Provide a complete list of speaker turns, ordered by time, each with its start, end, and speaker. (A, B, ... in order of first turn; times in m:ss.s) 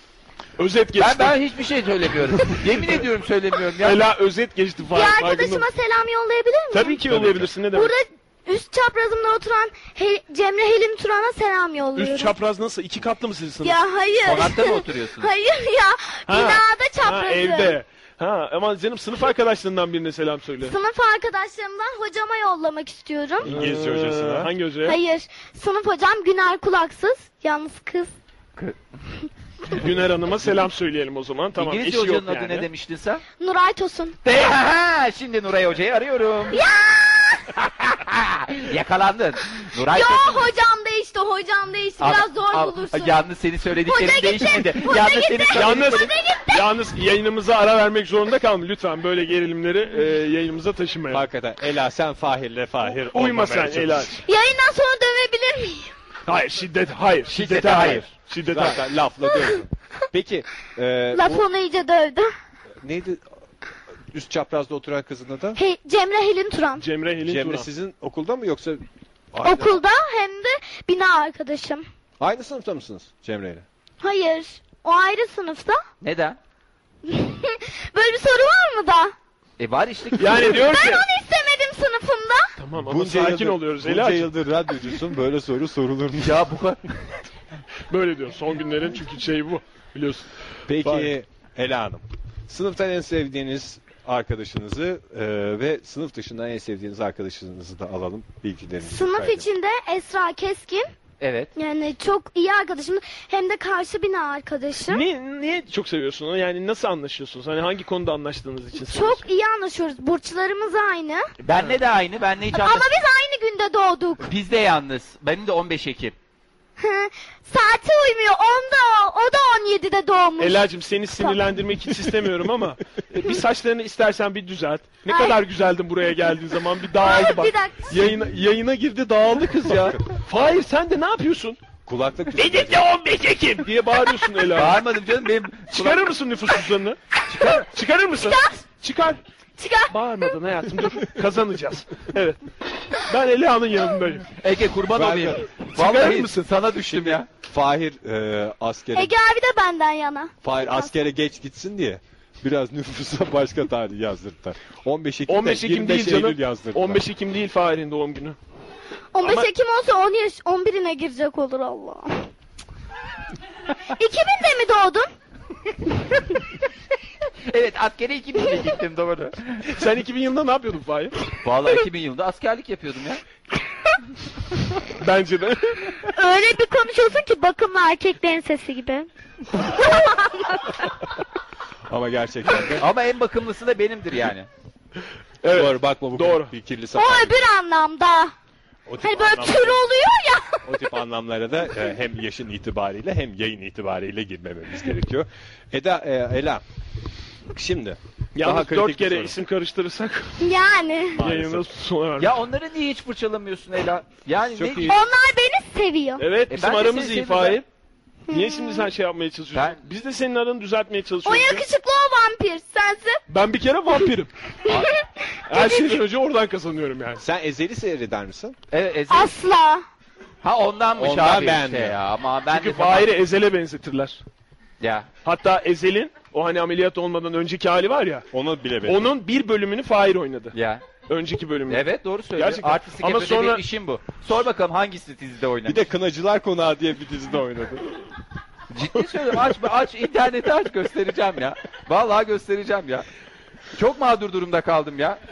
0:00.6-0:01.4 A
0:01.0-0:04.0 B
0:03.8-0:05.7 A
0:04.9-0:07.0 C
0:06.7-0:07.9 A
0:07.1-0:07.5 D
0:07.6-0:12.3 C
0:11.9-0:13.8 A
0:13.6-0:17.8 C
0:14.2-0:15.3 B
0:16.3-0:20.7 A
0:20.6-0:23.5 C
0:23.4-0:24.5 D
0:23.5-0:25.0 A
0:24.8-0:28.1 C
0:29.7-0:32.6 A
0:31.6-0:33.2 B
0:33.4-0:34.2 C
0:34.2-0:36.6 B
0:36.5-0:37.5 C
0:37.6-0:40.4 B
0:39.9-0:43.2 C
0:42.0-0:46.1 B
0:43.8-0:46.6 C
0:45.5-0:51.2 A
0:51.1-0:54.1 D
0:53.1-0:54.2 A
0:54.2-0:55.9 C
0:56.3-0:58.8 A
0:57.3-0:58.0 B
0:58.4-1:01.4 D
1:01.1-1:02.3 C
1:02.8-1:03.2 D
1:04.1-1:05.6 D
1:05.6-1:06.8 C
1:06.8-1:07.7 A
1:07.2-1:09.8 D
1:09.4-1:11.8 C
1:12.2-1:13.6 D
1:14.0-1:15.8 C
1:16.0-1:16.4 B
1:17.0-1:19.1 C
1:19.6-1:20.5 B
1:20.2-1:21.0 A
1:20.4-1:22.5 C
1:22.6-1:24.3 A
1:22.8-1:26.6 D
1:26.2-1:26.8 B
1:27.9-1:30.2 A
1:30.7-1:39.4 D
1:30.8-1:31.1 A
1:38.8-1:40.9 C
1:41.2-1:41.5 B
1:41.6-1:45.0 C
1:44.9-1:49.2 A
1:48.9-1:51.3 C
1:51.4-1:52.8 B
1:52.5-1:54.3 C
1:54.2-1:56.2 B
1:56.8-2:00.6 C
2:00.4-2:11.6 A
2:05.1-2:05.4 C
2:07.0-2:08.0 C
2:11.8-2:12.9 D
2:12.3-2:14.8 A
2:14.5-2:16.1 B
2:15.7-2:17.0 A
2:17.3-2:17.7 B
2:17.7-2:19.2 A
2:18.2-2:18.6 C
2:19.6-2:19.9 C
2:19.9-2:22.4 A
2:23.0-2:24.3 A
2:24.4-2:27.3 B
2:24.9-2:25.4 D
2:25.7-2:26.4 A
2:26.9-2:29.1 D
2:28.9-2:30.9 C
2:30.4-2:37.0 D
2:35.3-2:38.4 A
2:39.1-2:42.2 C
2:39.2-2:39.5 A
2:44.0-2:45.1 C
2:47.5-2:49.7 B
2:49.7-2:51.2 A
2:51.4-2:53.2 B
2:55.0-2:55.8 A
2:56.1-2:59.1 C
2:59.7-3:00.9 C
3:01.9-3:02.8 D
3:02.8-3:04.5 B
3:05.4-3:06.5 A
3:05.5-3:07.5 D
3:06.9-3:08.3 C
3:08.9-3:09.8 D
3:09.0-3:10.6 C
3:10.6-3:16.6 D
3:17.5-3:19.4 D
3:18.3-3:20.4 A
3:20.4-3:21.2 C
3:21.1-3:21.7 D
3:21.2-3:22.3 A
3:22.2-3:25.0 B
3:24.4-3:25.0 D
3:24.9-3:26.2 C
3:26.2-3:27.7 A
3:26.5-3:27.6 B
3:28.3-3:28.9 C
3:28.3-3:31.6 A
3:31.2-3:33.2 C
3:33.3-3:34.3 A
3:34.7-3:36.0 C
3:35.5-3:37.2 A
3:37.2-3:38.6 D
3:38.7-3:39.3 B
3:39.1-3:39.8 C
3:40.4-3:43.1 B
3:41.0-3:42.0 D
3:42.5-3:44.2 A
3:44.8-3:45.1 B
3:45.2-3:48.3 A
3:48.3-3:49.1 D
3:48.8-3:50.5 A
3:50.5-3:50.8 B
3:51.1-3:53.6 A
3:51.7-3:55.8 B
3:55.6-3:57.9 D
3:58.7-4:03.0 B
4:03.8-4:05.2 B